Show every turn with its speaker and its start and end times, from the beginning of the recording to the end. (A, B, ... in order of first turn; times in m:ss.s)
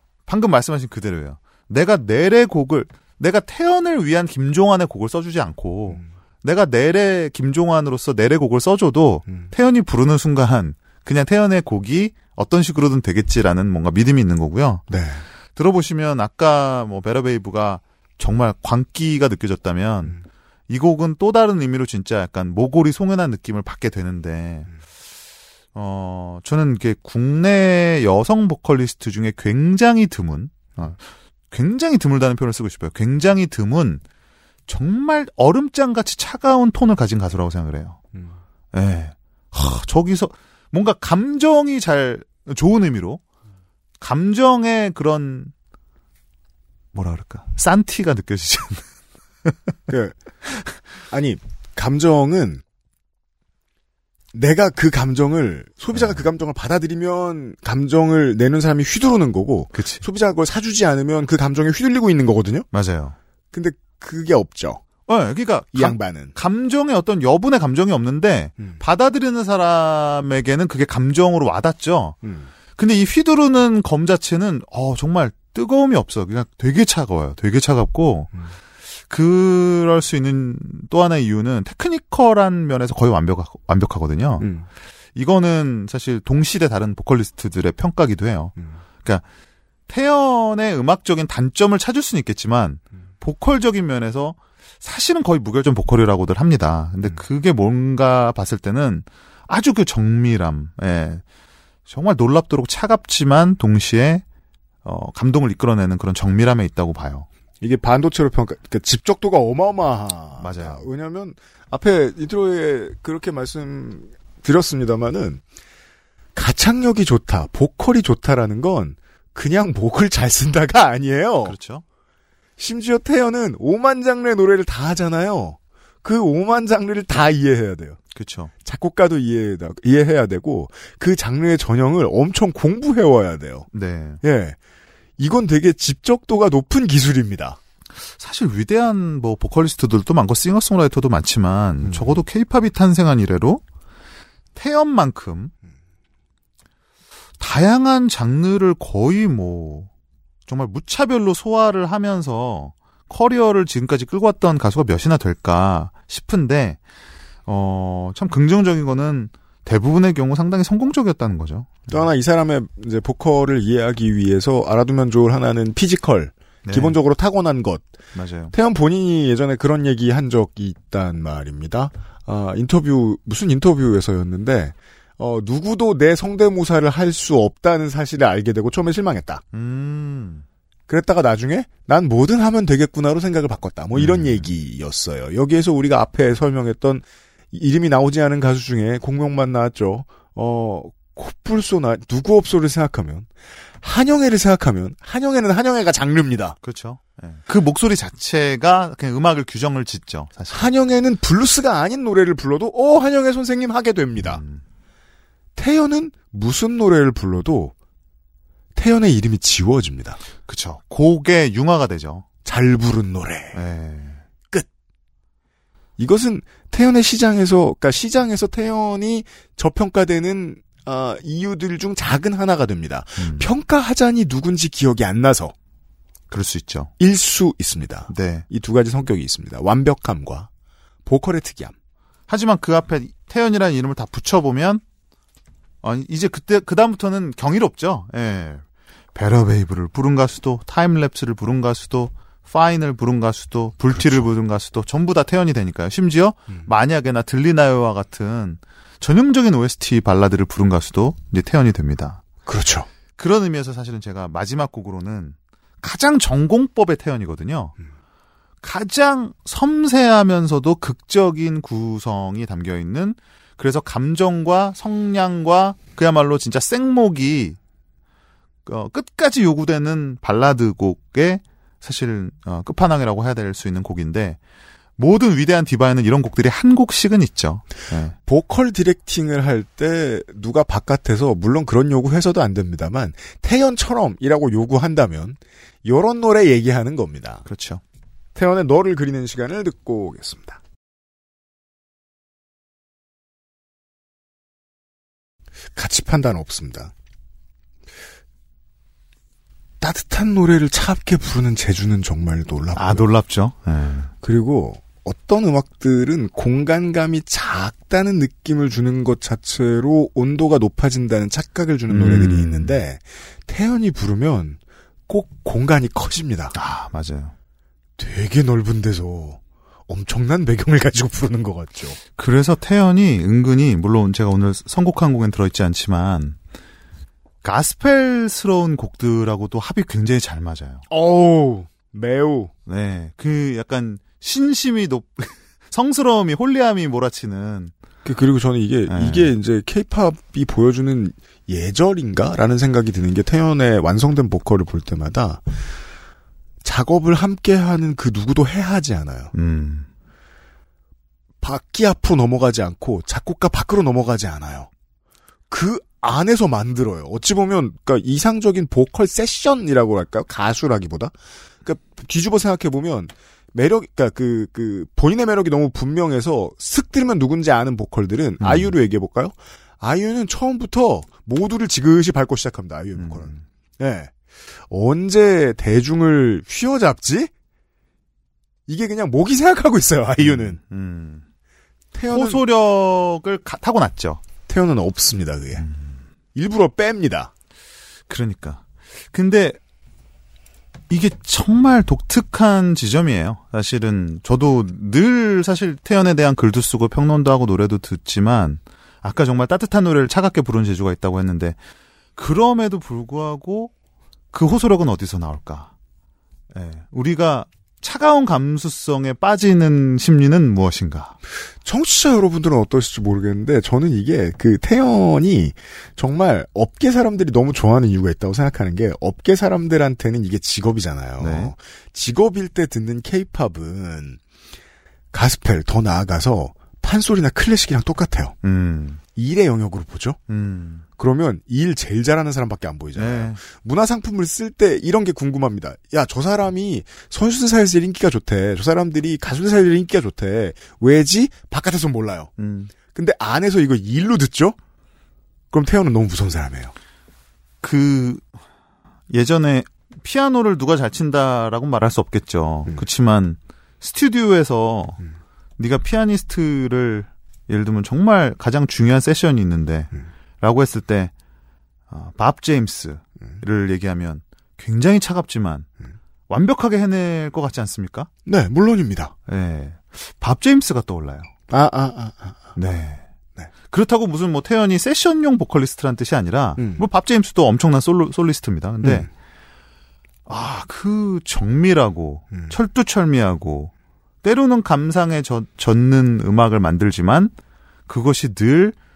0:00.3-0:14.9 A
0:14.9-0:15.2 B
0:15.6-0:24.7 A
0:25.8-0:34.0 A
0:34.7-0:38.0 A
0:38.7-0:43.2 A
0:44.0-0:45.5 A
0:46.9-0:48.8 A
0:49.9-0:50.2 B
0:51.1-0:52.6 B
0:54.3-1:02.7 B
0:55.9-0:56.2 A
0:59.8-1:00.0 A
1:02.7-1:03.2 A
1:03.5-1:04.8 B
1:05.1-1:12.2 A
1:05.7-1:06.3 B
1:12.2-1:12.5 B
1:12.8-1:18.3 A
1:19.1-1:24.5 A
1:24.4-1:24.7 B
1:25.2-1:29.2 A
1:29.9-1:41.2 A
1:41.9-1:44.2 A
1:44.8-1:47.3 A
1:47.6-1:55.4 B
1:50.4-1:50.9 A
1:56.4-2:01.6 B
2:01.4-2:01.8 A
2:02.6-2:08.0 B
2:08.1-2:08.5 A
2:08.6-2:13.7 B
2:13.7-2:14.2 A
2:14.2-2:14.6 B
2:15.2-2:17.6 B
2:18.0-2:23.6 A
2:21.8-2:22.2 B
2:24.6-2:25.5 A
2:27.4-2:29.9 A
2:30.5-2:36.8 A
2:37.5-2:42.0 A
2:41.9-2:47.9 B
2:46.6-2:47.0 A
2:48.1-2:48.5 A
2:48.5-2:59.4 B
2:59.5-3:00.4 A
3:00.9-3:16.6 B
3:04.0-3:04.5 A
3:16.6-3:20.7 A
3:20.5-3:24.4 B
3:24.2-3:24.6 A
3:25.6-3:27.7 B
3:28.8-3:30.2 B
3:30.5-3:32.2 A
3:32.4-3:33.6 B
3:33.5-3:34.2 A
3:36.0-3:45.6 B
3:43.2-3:43.5 A
3:46.3-3:46.9 A
3:47.0-3:50.5 B
3:48.1-3:48.4 A
3:51.0-3:51.7 B
3:52.3-3:54.8 A
3:55.8-4:12.2 A
4:03.9-4:04.3 B
4:12.5-4:12.9 B
4:13.2-4:17.8 A
4:18.6-4:27.6 A
4:28.6-4:34.4 A
4:35.0-4:38.2 A
4:38.3-4:47.4 B
4:47.5-4:47.8 A
4:48.4-4:50.6 B
4:55.8-4:56.9 B
4:59.8-5:03.1 B
5:02.8-5:04.1 A
5:04.2-5:16.6 B
5:11.9-5:12.8 A
5:16.5-5:17.3 A
5:18.0-5:22.0 B
5:22.2-5:26.4 A
5:27.4-5:30.8 A
5:30.9-5:32.5 B
5:32.7-5:37.7 A
5:38.0-5:45.4 B
5:38.9-5:39.3 A
5:46.6-5:49.3 B
5:49.3-5:49.9 A
5:51.4-5:54.7 B
5:55.5-6:14.1 B
6:08.4-6:08.7 A
6:13.0-6:13.4 A
6:14.7-6:17.3 B
6:18.7-6:20.6 B
6:20.2-6:21.2 A
6:21.9-6:22.4 B
6:22.1-6:24.2 A
6:24.5-6:25.7 B
6:25.6-6:26.0 A
6:26.4-6:27.3 B
6:28.1-6:29.6 A
6:30.9-6:41.6 A
6:42.2-6:43.7 A
6:44.3-6:45.7 A
6:46.5-6:51.2 A
6:51.6-7:04.2 B
7:01.2-7:01.5 A
7:05.1-7:08.4 B
7:08.4-7:09.0 A
7:09.2-7:10.2 B
7:10.3-7:10.8 A
7:11.0-7:22.3 B
7:13.0-7:13.4 A
7:22.4-7:22.7 A
7:22.9-7:24.6 B
7:25.5-7:26.7 B
7:27.6-7:28.2 A
7:29.1-7:35.0 A
7:35.6-7:41.1 A
7:41.9-7:45.7 A
7:46.3-7:48.1 A
7:48.3-7:49.2 B
7:49.3-7:51.3 A
7:51.5-7:52.5 B
7:52.6-7:53.0 A
7:53.7-7:59.1 A
7:56.6-7:56.8 B
7:58.8-7:59.1 B
8:00.3-8:03.7 A
8:04.2-8:07.3 A
8:07.9-8:08.8 A